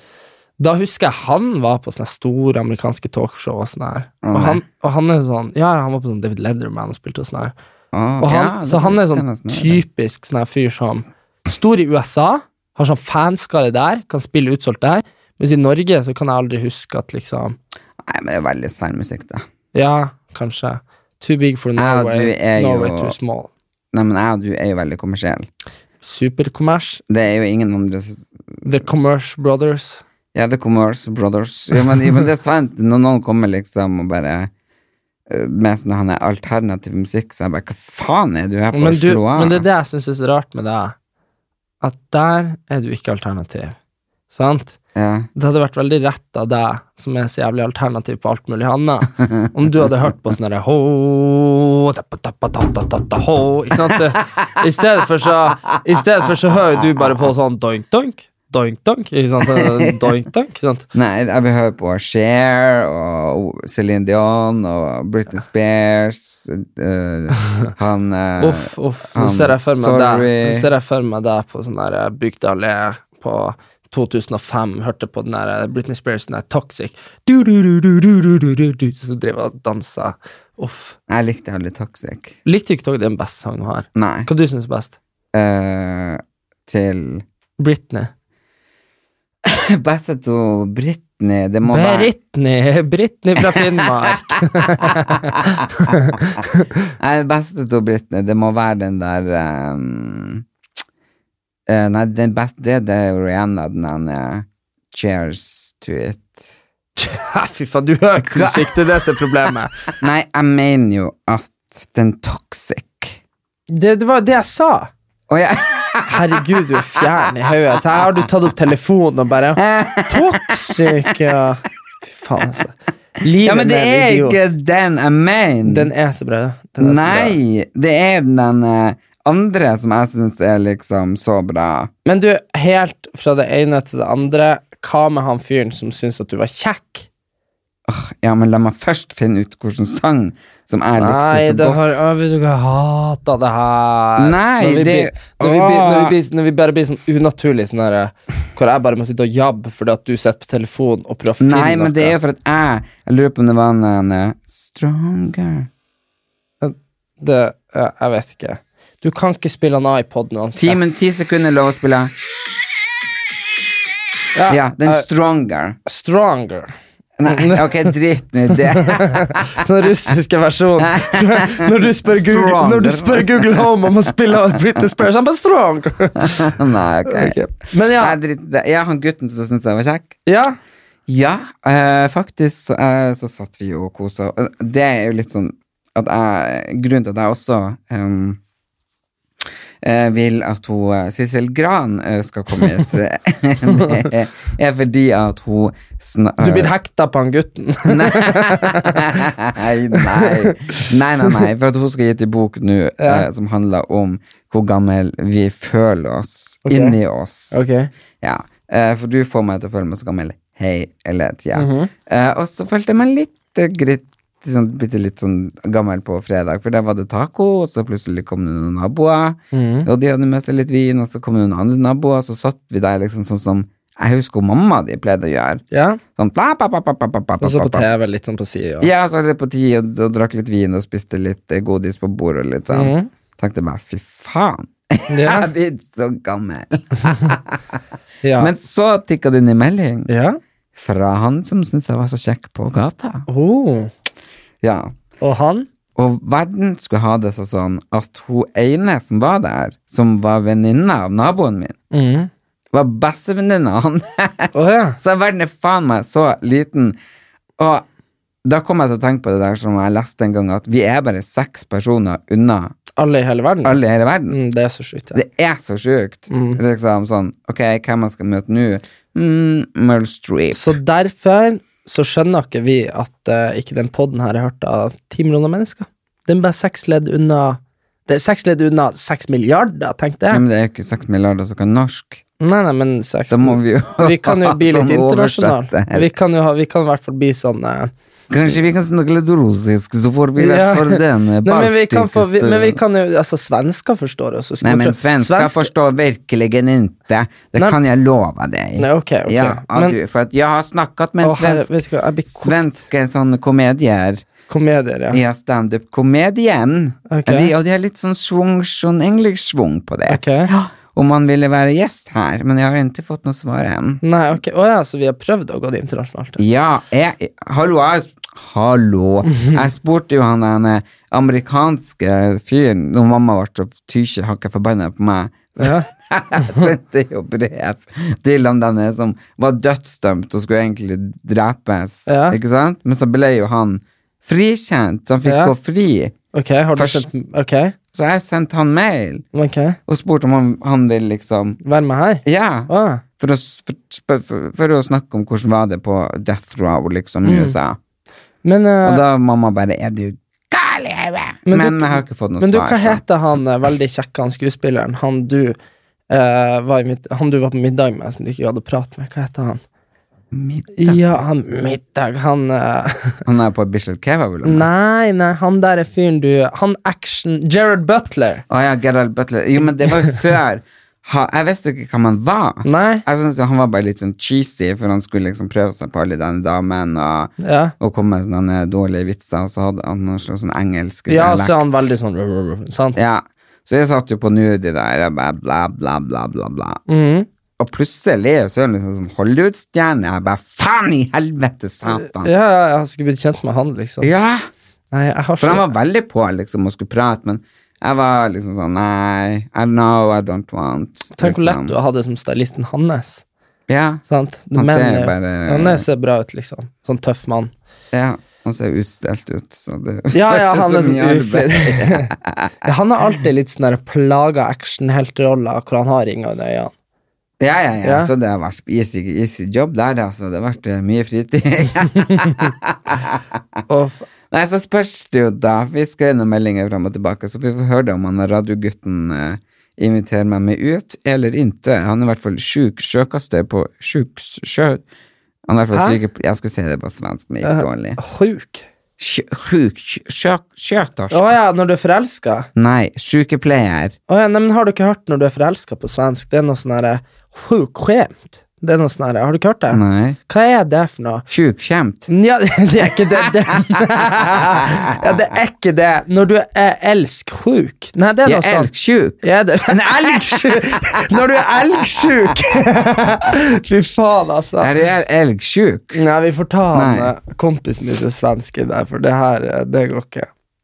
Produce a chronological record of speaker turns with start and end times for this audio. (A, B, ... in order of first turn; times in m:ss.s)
0:00.6-0:07.6 A
0:04.2-0:04.6 B
0:07.9-0:09.8 B
0:08.2-0:17.6 A
0:18.0-0:19.4 B
0:19.7-0:23.5 A
0:21.8-0:23.2 B
0:23.9-0:25.5 B
0:26.0-0:27.0 A
0:27.1-0:28.6 B
0:28.6-0:30.0 A
0:30.3-0:34.5 B
0:35.3-0:39.6 B
0:38.7-0:41.0 A
0:41.8-0:43.8 A
0:44.3-0:44.8 A
0:45.0-0:45.3 B
0:45.4-1:00.9 A
0:59.5-0:59.9 B
1:00.9-1:10.7 B
1:08.4-1:21.0 A
1:21.1-1:22.4 B
1:22.4-1:25.0 A
1:24.0-1:24.3 B
1:25.3-1:27.2 B
1:27.6-1:28.1 A
1:29.4-1:32.1 B
1:31.7-1:36.7 A
1:37.0-1:40.4 B
1:41.7-1:46.6 B
1:47.0-1:49.8 A
1:48.3-1:48.8 B
1:50.0-1:53.2 B
1:53.7-1:54.9 A
1:55.3-1:56.4 B
1:56.1-2:04.4 A
1:59.6-2:00.9 B
2:03.4-2:05.9 B
2:05.6-2:07.4 A
2:06.8-2:11.9 B
2:12.0-2:17.1 A
2:17.9-2:22.0 B
2:21.0-2:32.2 A
2:24.2-2:26.2 B
2:31.4-2:35.7 B
2:36.6-2:40.8 A
2:40.6-2:42.1 B
2:44.4-2:45.1 A
2:44.5-2:45.8 B
2:45.9-2:46.7 A
2:47.2-2:49.5 B
2:47.3-2:47.9 A
2:48.5-2:56.5 A
2:50.8-2:53.7 B
2:56.2-2:57.4 B
2:57.1-2:58.2 A
2:57.9-3:00.2 B
3:00.3-3:00.6 A
3:01.1-3:08.4 B
3:09.8-3:16.7 B
3:16.4-3:19.2 A
3:17.9-3:27.6 B
3:20.0-3:20.8 A
3:23.0-3:23.3 A
3:26.7-3:27.0 A
3:27.5-3:27.9 A
3:28.2-3:45.6 B
3:31.6-3:31.9 A
3:39.5-3:39.9 A
3:45.7-3:46.0 A
3:46.2-3:47.9 B
3:47.4-3:48.9 A
3:48.8-3:57.6 B
3:52.7-3:53.1 A
3:55.1-3:55.5 A
3:58.2-3:58.5 A
3:58.4-4:00.1 B
4:00.1-4:00.4 A
4:00.8-4:03.3 B
4:03.3-4:03.9 A
4:04.6-4:04.9 B
4:05.2-4:05.7 A
4:06.0-4:11.8 B
4:11.9-4:12.3 A
4:12.7-4:17.0 B
4:14.5-4:15.0 A
4:17.6-4:17.9 B
4:18.4-4:22.8 B
4:23.0-4:25.2 A
4:23.6-4:24.4 B
4:25.1-4:30.8 B
4:26.3-4:26.6 A
4:30.5-4:40.4 A
4:40.3-4:42.2 B
4:42.4-4:47.9 A
4:43.3-4:46.1 B
4:48.3-4:52.8 B
4:50.4-4:55.7 A
4:54.6-5:01.8 B
4:58.8-5:00.0 A
5:01.2-5:02.8 A
5:02.3-5:04.2 B
5:04.5-5:05.2 A
5:05.1-5:14.0 B
5:07.1-5:07.5 A
5:10.1-5:10.5 A
5:14.0-5:16.4 A
5:16.4-5:36.2 B
5:19.3-5:19.6 A
5:25.6-5:26.7 A
5:32.1-5:32.4 A
5:35.2-5:35.5 A
5:36.3-5:37.8 A
5:36.8-5:37.1 B
5:37.9-5:39.2 B
5:39.3-5:39.8 A
5:39.9-5:41.6 B
5:41.6-5:43.0 A
5:42.2-5:47.8 B
5:47.2-5:47.6 A
5:48.4-5:49.0 A
5:48.8-5:53.0 B
5:51.5-5:55.6 A
5:56.1-5:59.6 A
6:00.3-6:01.1 B
6:00.8-6:03.2 A
6:03.2-6:04.7 B
6:04.4-6:08.4 A
6:08.5-6:21.9 B
6:12.6-6:13.0 A
6:17.4-6:17.7 A
6:21.1-6:23.0 A
6:23.0-6:26.8 B
6:26.9-6:27.3 A
6:27.6-6:32.3 B
6:32.0-6:34.1 A
6:34.0-6:34.5 B
6:34.9-6:35.7 A
6:35.4-6:41.7 B
6:41.2-6:43.2 A
6:43.7-6:44.0 B
6:44.1-6:47.5 A
6:44.5-6:45.8 B
6:47.9-6:52.5 B
6:50.1-6:52.1 A
6:52.6-6:56.7 A
6:57.4-7:03.2 B
6:57.8-6:58.1 A
7:03.7-7:04.1 A
7:04.3-7:14.8 B
7:15.5-7:18.0 B
7:15.7-7:16.0 A
7:17.4-7:18.6 A
7:19.0-7:21.3 B
7:21.1-7:22.5 A
7:22.6-7:24.0 B
7:24.1-7:31.2 A
7:29.7-7:30.2 B
7:31.3-7:32.1 B
7:32.1-7:38.7 A
7:38.2-7:41.0 B
7:39.2-7:44.7 A
7:44.6-7:46.0 B
7:45.9-7:50.3 A
7:46.7-7:47.1 B